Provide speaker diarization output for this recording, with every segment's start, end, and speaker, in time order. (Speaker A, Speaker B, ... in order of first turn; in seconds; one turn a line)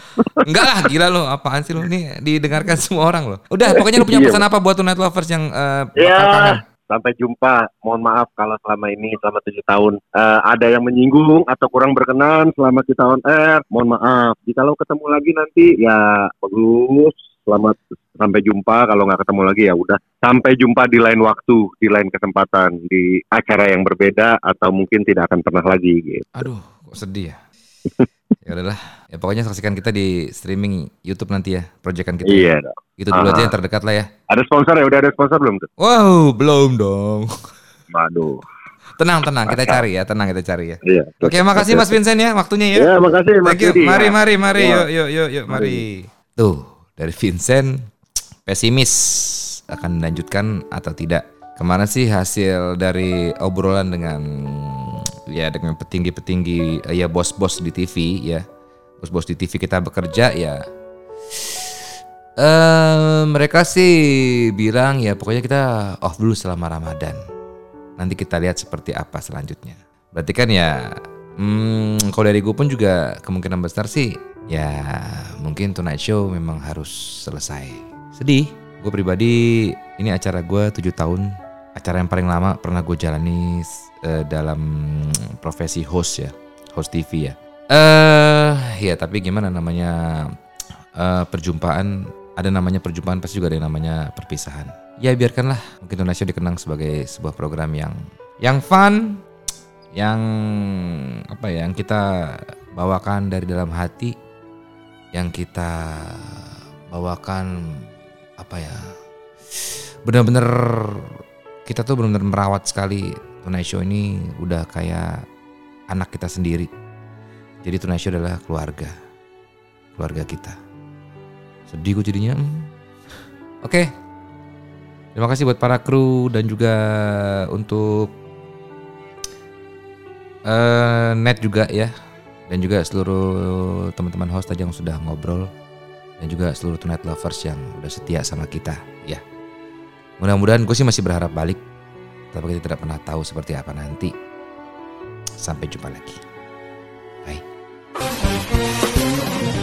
Speaker A: 0.4-6.6
Speaker B: 3.7-4.4
Speaker B: 6.0-26.3
Speaker A: 26.3-27.4
Speaker A: 28.4-34.1
Speaker B: 32.3-33.5
Speaker B: 34.3-35.6
Speaker A: 35.8-37.3
Speaker B: 37.9-38.4
Speaker A: 39.0-47.7
Speaker B: 39.5-39.8
Speaker B: 40.8-42.0
Speaker B: 42.7-44.9
Speaker B: 45.5-45.8
Speaker A: 48.5-58.4
Speaker A: 59.0-60.6
Speaker A: 62.4-67.2
Speaker A: 68.0-90.0
Speaker A: 91.0-99.2
Speaker A: 99.9-104.1
Speaker A: 105.1-107.5
Speaker A: 108.4-108.8
Speaker A: 109.7-111.1
Speaker A: 111.7-115.2
Speaker A: 115.9-116.7
Speaker A: 117.6-118.9
Speaker A: 120.0-120.5
Speaker A: 121.7-122.7
Speaker A: 125.2-128.1
Speaker A: 130.5-131.9
Speaker A: 132.5-135.5
Speaker A: 136.2-139.2
Speaker A: 140.2-141.6
Speaker A: 142.3-144.1
Speaker A: 145.4-146.2